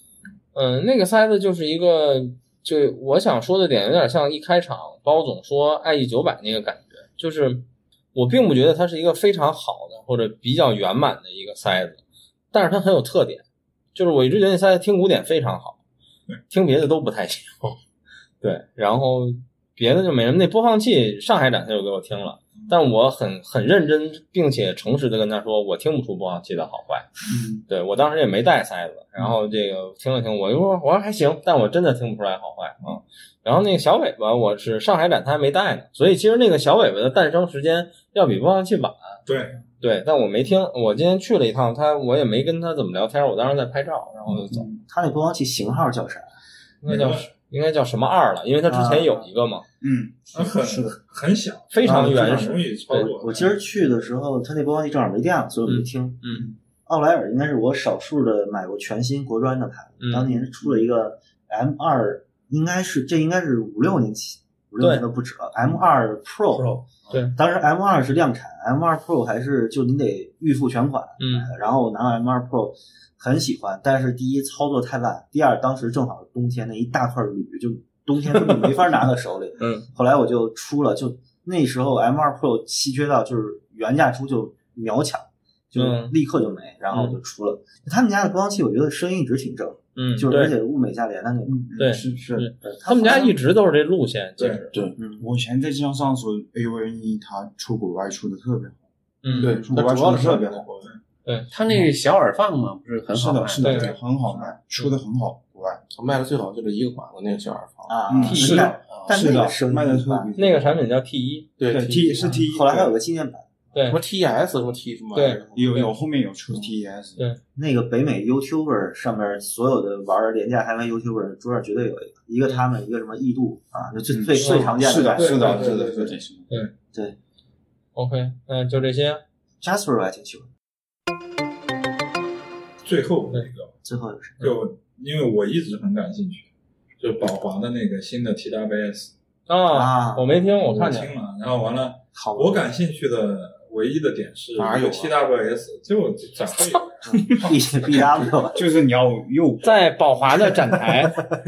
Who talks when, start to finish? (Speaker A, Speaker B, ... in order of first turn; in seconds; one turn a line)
Speaker A: 0.5-7.6
Speaker A: 8.1-12.0
Speaker A: 12.5-13.4
Speaker A: 13.9-15.8
Speaker A: 16.5-17.8
Speaker A: 18.4-27.1
Speaker B: 27.3-27.6
Speaker A: 27.7-39.2
Speaker C: 39.2-39.5
Speaker A: 39.8-44.7
Speaker B: 44.3-44.8
Speaker D: 44.9-46.3
Speaker A: 46.8-49.6
Speaker C: 46.9-47.3
Speaker D: 48.6-49.3
Speaker B: 49.8-50.9
Speaker C: 50.3-53.5
Speaker A: 51.7-53.3
Speaker B: 51.8-52.5
Speaker D: 53.0-56.2
Speaker A: 55.6-56.5
Speaker B: 56.2-56.5
Speaker D: 56.9-66.8
Speaker A: 60.0-60.4
Speaker B: 67.0-67.3
Speaker A: 67.1-67.3
Speaker D: 67.3-91.8
Speaker A: 71.2-71.5
Speaker A: 79.6-79.8
Speaker A: 85.8-86.2
Speaker A: 90.0-90.5
Speaker B: 91.5-92.5
Speaker A: 91.8-94.7
Speaker D: 92.5-93.4
Speaker C: 94.4-94.6
Speaker B: 94.7-98.8
Speaker D: 95.0-95.3
Speaker A: 99.2-99.5
Speaker D: 99.3-99.8
Speaker E: 99.4-100.8
Speaker B: 99.4-100.9
Speaker F: 101.5-103.9
Speaker B: 103.1-105.8
Speaker A: 103.6-103.9
Speaker D: 104.3-104.5
Speaker E: 105.9-109.4
Speaker D: 107.9-110.3
Speaker B: 108.1-110.8
Speaker A: 108.2-108.6
Speaker C: 108.3-108.7
Speaker A: 110.3-111.5
Speaker E: 111.6-112.5
Speaker B: 111.7-112.9
Speaker D: 112.1-113.5
Speaker A: 113.7-114.0
Speaker E: 113.8-116.0
Speaker A: 115.1-115.4
Speaker B: 115.5-117.3
Speaker D: 117.5-126.1
Speaker B: 124.1-126.5
Speaker A: 124.4-124.7
Speaker C: 125.1-125.8
Speaker E: 125.4-126.2
Speaker A: 127.9-129.2
Speaker D: 129.6-130.5
Speaker C: 132.8-133.7
Speaker D: 133.8-134.5
Speaker C: 134.4-136.5
Speaker C: 137.0-139.1
Speaker A: 139.5-141.1
Speaker D: 139.7-140.4
Speaker C: 140.6-147.5
Speaker D: 142.1-142.6
Speaker E: 144.6-145.1
Speaker D: 147.0-148.6
Speaker B: 148.5-151.1
Speaker A: 149.6-151.2